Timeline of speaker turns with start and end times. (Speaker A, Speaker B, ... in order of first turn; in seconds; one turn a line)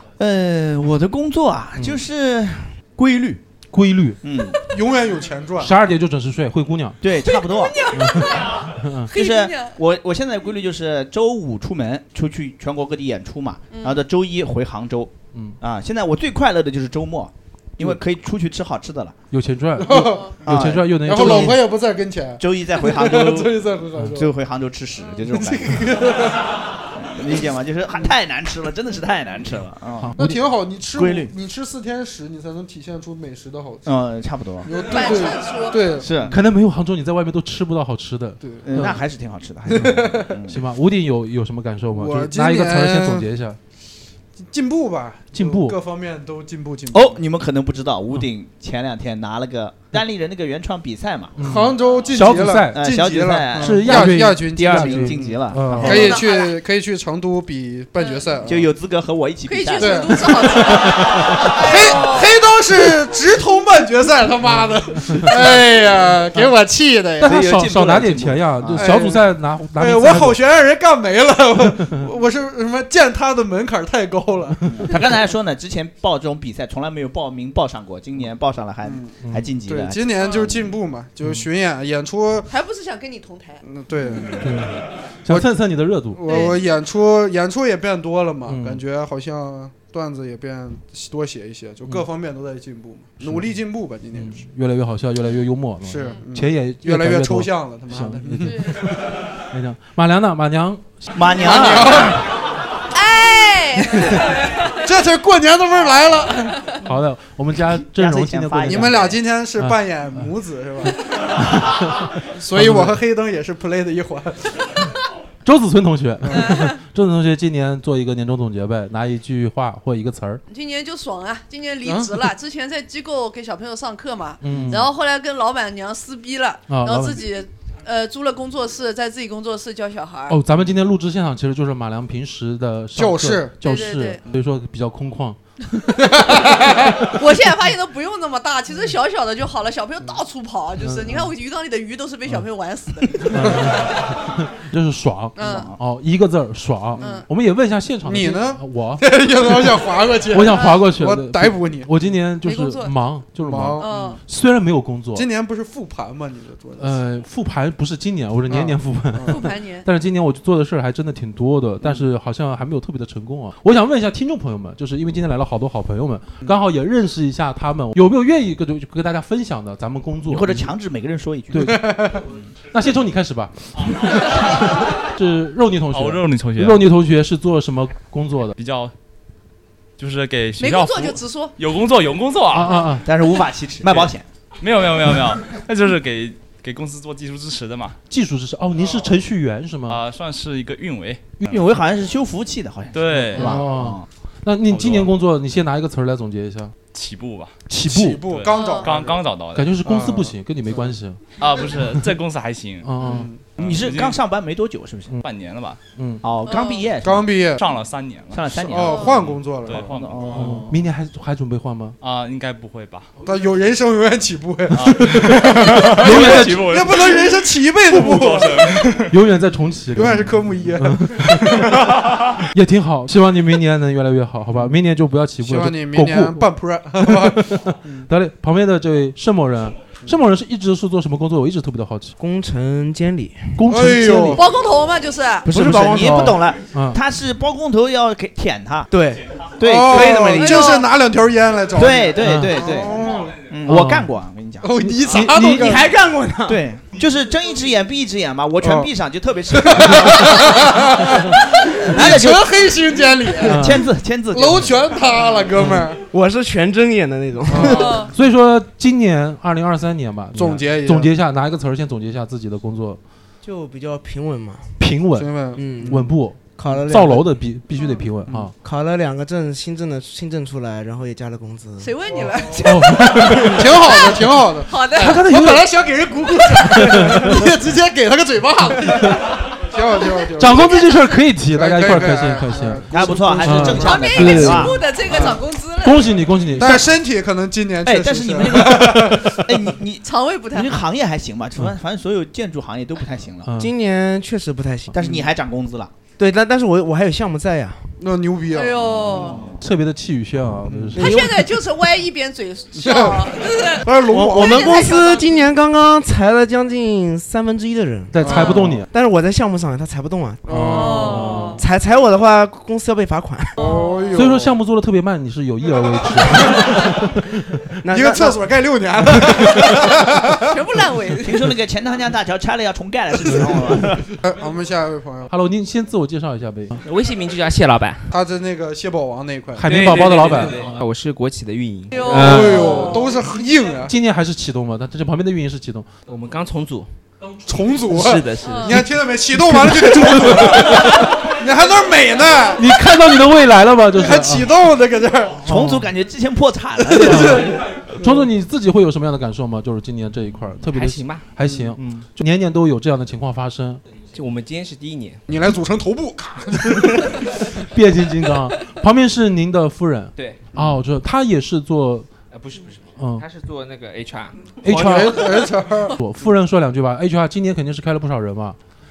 Speaker A: 0.2-3.4
Speaker B: 1.8-2.0
Speaker B: 3.7-4.2
Speaker A: 4.2-4.6
Speaker C: 4.7-5.7
Speaker B: 5.6-7.0
Speaker A: 7.0-7.9
Speaker D: 7.2-9.8
Speaker B: 7.9-9.1
Speaker A: 9.1-19.2
Speaker D: 13.7-14.0
Speaker B: 19.3-21.6
Speaker C: 19.8-20.4
Speaker A: 20.4-21.6
Speaker C: 21.0-24.3
Speaker A: 22.4-23.6
Speaker A: 24.1-26.0
Speaker C: 25.3-26.5
Speaker A: 27.0-30.2
Speaker B: 30.0-30.4
Speaker C: 30.2-34.0
Speaker A: 31.0-31.3
Speaker A: 33.9-34.7
Speaker C: 34.6-36.3
Speaker D: 34.9-36.0
Speaker A: 36.0-36.4
Speaker B: 36.3-39.0
Speaker C: 38.4-38.9
Speaker A: 38.6-40.7
Speaker C: 39.7-40.4
Speaker B: 39.8-43.6
Speaker C: 41.9-43.3
Speaker C: 44.5-47.2
Speaker B: 45.3-45.8
Speaker A: 46.9-51.4
Speaker B: 51.4-52.9
Speaker C: 51.4-58.7
Speaker A: 52.7-56.1
Speaker B: 53.5-56.2
Speaker D: 55.8-56.6
Speaker D: 58.0-58.5
Speaker A: 58.5-60.4
Speaker D: 59.5-62.4
Speaker C: 59.8-66.6
Speaker A: 67.2-69.0
Speaker B: 67.2-70.4
Speaker C: 68.7-74.6
Speaker A: 74.7-80.1
Speaker C: 78.8-82.5
Speaker D: 80.2-80.6
Speaker D: 82.5-83.6
Speaker C: 83.6-84.7
Speaker B: 84.4-86.2
Speaker C: 86.1-94.5
Speaker D: 86.3-86.6
Speaker B: 88.5-88.8
Speaker B: 93.2-93.6
Speaker B: 94.1-101.0
Speaker C: 95.8-98.8
Speaker D: 98.5-98.8
Speaker A: 101.2-102.2
Speaker C: 101.4-102.2
Speaker D: 102.9-104.7
Speaker C: 104.8-106.7
Speaker B: 106.8-110.3
Speaker A: 107.6-109.2
Speaker C: 108.6-111.0
Speaker B: 111.5-113.0
Speaker C: 112.4-114.5
Speaker B: 115.5-120.4
Speaker C: 116.2-116.7
Speaker D: 116.4-116.8
Speaker D: 120.5-130.4
Speaker C: 121.8-122.3
Speaker B: 124.4-124.9
Speaker B: 126.7-127.2
Speaker B: 130.3-135.4
Speaker C: 132.9-133.6
Speaker D: 133.6-134.2
Speaker C: 136.1-136.9
Speaker D: 137.1-143.7
Speaker B: 140.8-141.3
Speaker B: 143.3-149.0
Speaker D: 145.4-145.7
Speaker A: 145.4-145.7
Speaker C: 147.0-147.3
Speaker D: 147.0-147.3
Speaker C: 148.0-151.9
Speaker B: 150.3-155.3
Speaker D: 152.4-152.9
Speaker C: 153.4-154.2
Speaker D: 153.8-154.2
Speaker C: 155.1-157.0
Speaker B: 156.8-170.7
Speaker C: 158.5-159.4
Speaker D: 159.3-159.9
Speaker C: 161.8-162.1
Speaker A: 170.3-171.9
Speaker B: 171.5-171.9
Speaker C: 171.6-172.2
Speaker B: 172.7-178.6
Speaker E: 175.9-176.8
Speaker E: 178.6-178.9
Speaker E: 180.0-182.8
Speaker D: 180.6-181.5
Speaker B: 182.5-183.1
Speaker A: 183.1-184.2
Speaker E: 183.8-188.0
Speaker B: 188.1-190.0
Speaker E: 189.9-191.4
Speaker A: 191.4-194.1
Speaker E: 192.9-193.6
Speaker B: 193.3-196.7
Speaker E: 194.7-195.1
Speaker E: 196.9-197.6
Speaker B: 197.7-198.2
Speaker C: 197.8-200.9
Speaker E: 198.3-199.8
Speaker D: 198.5-198.9
Speaker B: 199.5-201.2
Speaker E: 201.4-202.9
Speaker B: 201.8-202.1
Speaker B: 202.8-203.3
Speaker C: 203.0-203.4
Speaker A: 203.6-205.2
Speaker E: 203.6-204.2
Speaker E: 205.2-205.8
Speaker B: 206.0-206.2
Speaker A: 206.2-207.3
Speaker D: 206.5-206.9
Speaker C: 207.0-207.6
Speaker E: 207.6-208.4
Speaker A: 208.3-209.2
Speaker C: 208.6-210.3
Speaker D: 208.8-209.2
Speaker E: 209.1-210.6
Speaker A: 209.9-210.8
Speaker B: 210.3-212.0
Speaker E: 212.0-213.1
Speaker C: 213.2-218.7
Speaker E: 214.7-217.4
Speaker B: 214.8-215.3
Speaker B: 216.0-216.7
Speaker E: 217.9-219.1
Speaker B: 219.1-221.8
Speaker C: 219.9-221.7
Speaker B: 222.5-232.2
Speaker C: 224.5-224.8
Speaker C: 225.4-228.1
Speaker F: 232.2-233.8
Speaker B: 233.6-234.4
Speaker C: 233.7-234.5
Speaker D: 234.3-235.5
Speaker A: 235.4-238.9
Speaker F: 235.5-236.4
Speaker B: 235.9-237.0
Speaker F: 238.9-239.3
Speaker A: 239.5-240.6
Speaker C: 239.6-243.4
Speaker D: 240.3-240.9
Speaker A: 241.8-245.2
Speaker B: 242.2-242.6
Speaker B: 243.7-244.1
Speaker C: 244.6-246.0
Speaker B: 245.1-245.8
Speaker F: 245.6-246.6
Speaker A: 246.5-250.7
Speaker C: 248.6-248.9
Speaker C: 249.5-256.0
Speaker A: 251.8-252.6
Speaker A: 253.4-254.9
Speaker B: 253.5-253.9
Speaker B: 255.6-255.9
Speaker F: 256.1-257.9
Speaker C: 257.5-258.1
Speaker D: 257.7-258.1
Speaker B: 258.0-263.0
Speaker C: 260.3-261.1
Speaker F: 263.4-264.7
Speaker B: 264.8-268.5
Speaker C: 265.2-266.2
Speaker F: 265.6-266.0
Speaker F: 266.6-267.3
Speaker C: 268.2-268.5
Speaker F: 268.6-271.9
Speaker D: 271.8-275.2
Speaker C: 272.1-280.9
Speaker B: 272.6-273.8
Speaker B: 274.9-275.7
Speaker B: 276.6-277.5
Speaker B: 280.4-285.2
Speaker D: 280.5-281.2
Speaker C: 281.4-284.2
Speaker A: 282.9-284.9
Speaker D: 283.8-286.2
Speaker C: 285.0-285.4
Speaker B: 285.8-286.9
Speaker C: 286.6-289.4
Speaker A: 287.9-293.5
Speaker D: 290.0-290.8
Speaker B: 293.4-293.7
Speaker F: 293.6-294.9
Speaker A: 294.9-295.9
Speaker F: 296.2-297.9
Speaker C: 298.0-299.4
Speaker D: 298.5-299.4
Speaker A: 298.9-299.6
Speaker B: 299.6-301.4
Speaker C: 300.7-301.1
Speaker D: 301.0-305.4
Speaker F: 301.0-301.3
Speaker C: 302.8-304.9
Speaker F: 304.1-310.5
Speaker B: 308.1-308.9
Speaker C: 308.2-308.9
Speaker C: 310.4-311.6
Speaker B: 310.5-311.6
Speaker D: 310.7-311.6
Speaker F: 311.6-313.5
Speaker D: 313.6-314.1
Speaker C: 313.6-314.6
Speaker B: 314.1-317.6
Speaker C: 316.0-316.8
Speaker F: 317.8-318.4
Speaker C: 317.9-320.6
Speaker B: 319.2-319.6
Speaker D: 320.5-321.5
Speaker A: 321.2-324.1
Speaker B: 323.3-323.9
Speaker C: 324.2-325.3
Speaker B: 325.3-326.8
Speaker G: 326.8-328.2
Speaker C: 328.1-329.9
Speaker B: 329.6-330.7
Speaker G: 329.6-332.2
Speaker D: 331.9-333.2
Speaker B: 332.1-332.7
Speaker C: 332.1-333.9
Speaker B: 333.9-335.9
Speaker G: 336.1-336.9
Speaker C: 337.5-342.7
Speaker G: 337.9-338.7
Speaker D: 338.4-338.8
Speaker B: 339.4-340.0
Speaker B: 342.6-344.5
Speaker C: 343.9-345.5
Speaker A: 345.4-347.6
Speaker B: 345.5-345.9
Speaker C: 346.8-348.3
Speaker B: 347.0-353.8
Speaker G: 350.7-351.3
Speaker C: 351.4-351.7
Speaker G: 354.1-355.2
Speaker C: 355.3-357.2
Speaker B: 357.7-362.1
Speaker G: 360.2-360.6
Speaker G: 362.3-364.5
Speaker B: 363.0-363.2
Speaker B: 364.6-365.2
Speaker C: 364.6-366.0
Speaker B: 366.0-368.6